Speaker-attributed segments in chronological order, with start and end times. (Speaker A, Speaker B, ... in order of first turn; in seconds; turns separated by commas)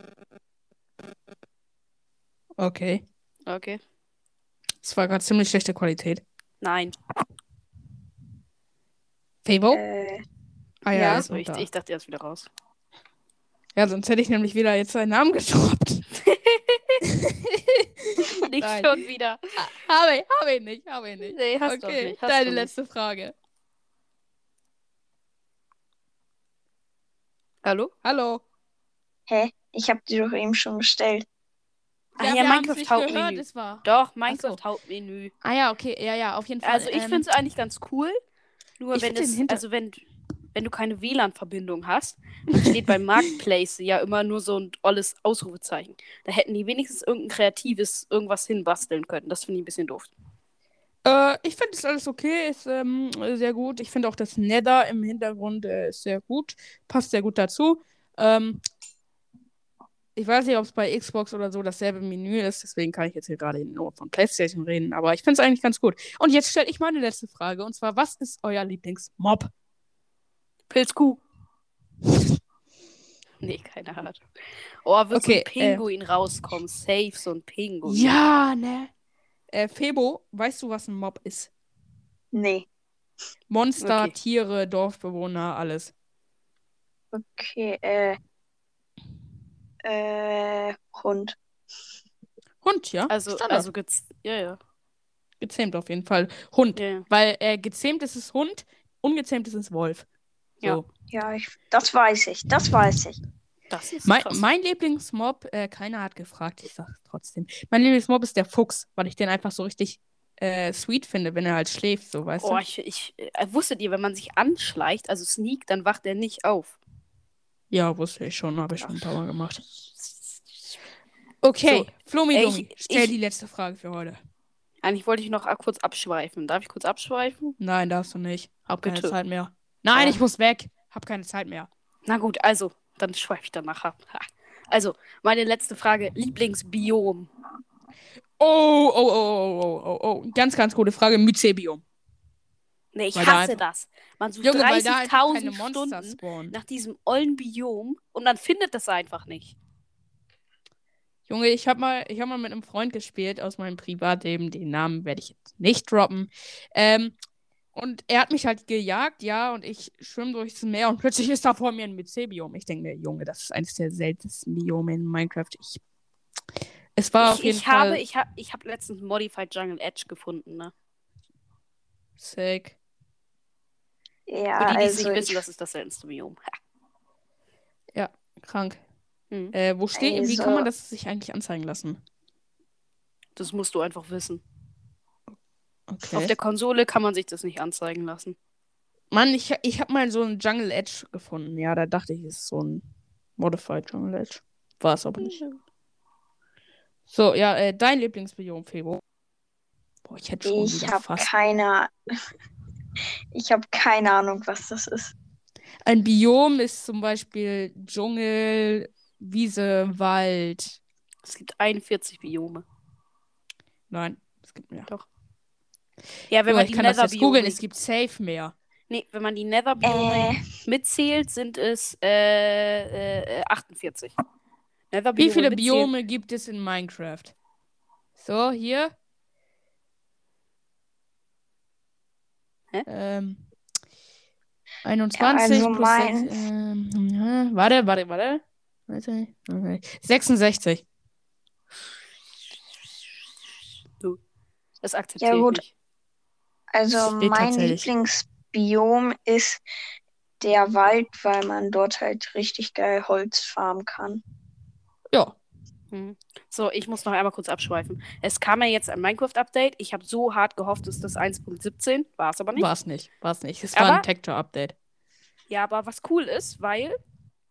Speaker A: 2.6-3.0, Speaker B: 3.5-3.8, Speaker A: 4.8-6.2, Speaker B: 6.6-6.9, Speaker A: 9.4-9.8, Speaker C: 9.7-10.2, Speaker A: 10.8-11.7, Speaker B: 10.9-12.5, Speaker C: 10.9-11.2, Speaker A: 13.8-16.0, Speaker B: 16.2-17.0, Speaker A: 17.0-18.9, Speaker B: 18.2-19.4, Speaker A: 19.6-23.3, Speaker B: 21.2-22.7, Speaker B: 27.6-27.9, Speaker A: 28.0-28.4, Speaker C: 29.3-31.2, Speaker B: 32.2-35.3, Speaker A: 32.2-34.6, Speaker A: 35.4-37.2, Speaker B: 36.6-38.2, Speaker B: 38.8-40.0, Speaker A: 38.9-39.6, Speaker B: 40.5-50.1, Speaker A: 51.0-58.6, Speaker A: 60.1-69.5, Speaker B: 70.7-71.2, Speaker B: 73.4-74.2, Speaker B: 74.8-78.1, Speaker A: 75.1-75.8, Speaker A: 77.8-78.9, Speaker A: 79.5-81.5, Speaker C: 82.3-82.7, Speaker A: 83.5-85.9, Speaker B: 83.8-84.1, Speaker C: 87.1-88.2, Speaker C: 89.8-91.3, Speaker A: 92.6-93.7, Speaker B: 93.1-94.6, Speaker A: 95.4-100.0, Speaker B: 96.8-97.0, Speaker C: 101.1-103.2, Speaker B: 103.7-104.4, Speaker A: 104.0-112.6, Speaker B: 112.4-116.8, Speaker A: 117.7-119.6, Speaker B: 119.6-120.8, Speaker A: 121.4-124.2, Speaker B: 121.6-123.1, Speaker B: 124.8-127.5, Speaker A: 127.6-131.7, Speaker B: 128.8-129.1, Speaker B: 132.1-137.3, Speaker A: 138.4-141.8, Speaker B: 142.9-149.6, Speaker A: 143.1-143.6, Speaker A: 144.4-146.6, Speaker A: 151.3-157.1, Speaker A: 157.7-165.8, Speaker A: 166.9-168.0, Speaker B: 167.2-170.7, Speaker A: 172.2-172.8, Speaker C: 174.3-175.4, Speaker B: 174.6-176.5, Speaker A: 177.9-178.8, Speaker A: 179.5-182.0, Speaker C: 179.9-180.7, Speaker B: 183.3-184.4, Speaker A: 185.9-186.3, Speaker B: 186.1-188.3, Speaker A: 189.1-192.8, Speaker A: 193.4-195.4, Speaker A: 197.1-199.0, Speaker A: 200.0-201.3, Speaker C: 200.4-201.9, Speaker C: 203.3-205.1, Speaker A: 205.8-210.8, Speaker B: 211.2-212.6, Speaker A: 213.9-214.9, Speaker B: 216.3-217.6, Speaker A: 216.5-218.5, Speaker B: 218.9-224.1, Speaker C: 219.8-220.4, Speaker B: 224.9-225.9, Speaker A: 225.2-227.3, Speaker A: 228.2-228.9, Speaker A: 232.8-233.4, Speaker A: 234.8-240.8, Speaker C: 235.1-236.4, Speaker B: 244.8-245.7, Speaker C: 245.2-245.6, Speaker C: 246.7-249.6, Speaker A: 246.9-247.9, Speaker C: 250.4-254.2, Speaker A: 255.1-255.4, Speaker B: 255.9-262.7, Speaker A: 262.6-264.7, Speaker B: 263.7-264.1, Speaker B: 265.5-267.0